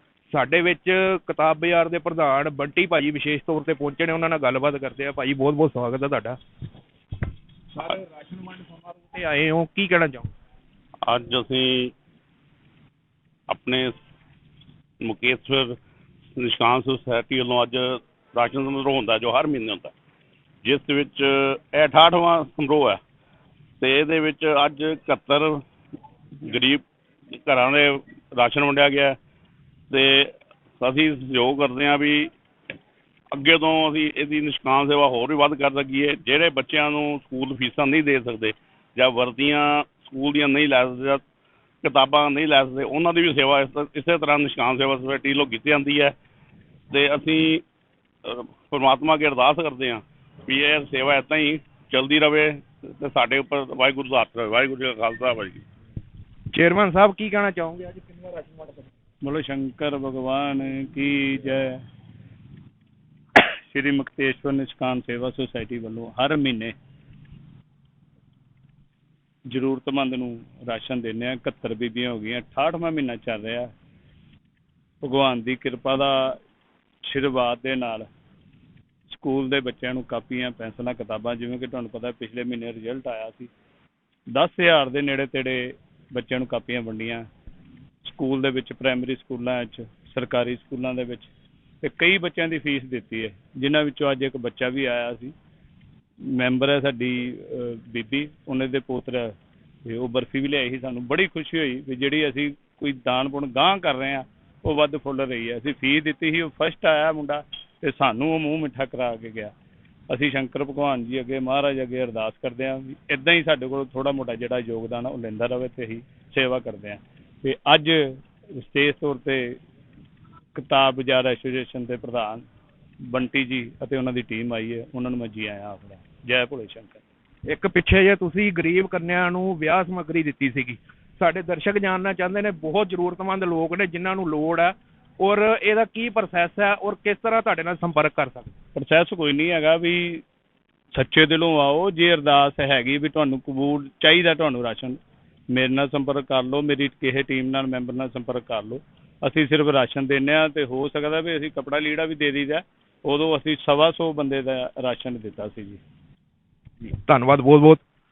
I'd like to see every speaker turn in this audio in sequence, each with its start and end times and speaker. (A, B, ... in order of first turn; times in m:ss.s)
0:00.3-0:06.4 A
0:07.8-0:10.3 A
0:11.0-0:11.9 B
0:13.5-0:14.0 B
0:15.0-0:15.8 B
0:16.4-0:19.9 B
0:20.6-0:23.0 B
0:23.8-0:25.6 B
0:26.4-0:29.2 B
0:29.9-0:32.3 B
0:33.3-0:41.2 B
0:41.8-0:46.2 B
0:46.9-0:47.6 B
0:48.2-0:55.6 B
0:56.5-0:58.8 A
0:59.2-1:01.8 C
1:03.3-1:06.8 C
1:09.5-1:13.7 C
1:15.0-1:16.4 C
1:17.0-1:18.1 C
1:19.1-1:23.5 C
1:24.3-1:27.3 C
1:28.0-1:31.3 C
1:31.8-1:35.3 C
1:36.2-1:49.5 C
1:50.1-1:59.6 C
2:00.5-2:02.5 C
2:03.0-2:07.0 C
2:07.5-2:18.5 A
2:18.8-2:20.2 C
2:20.9-2:25.0 C
2:25.5-2:35.8 C
2:36.8-2:37.8 A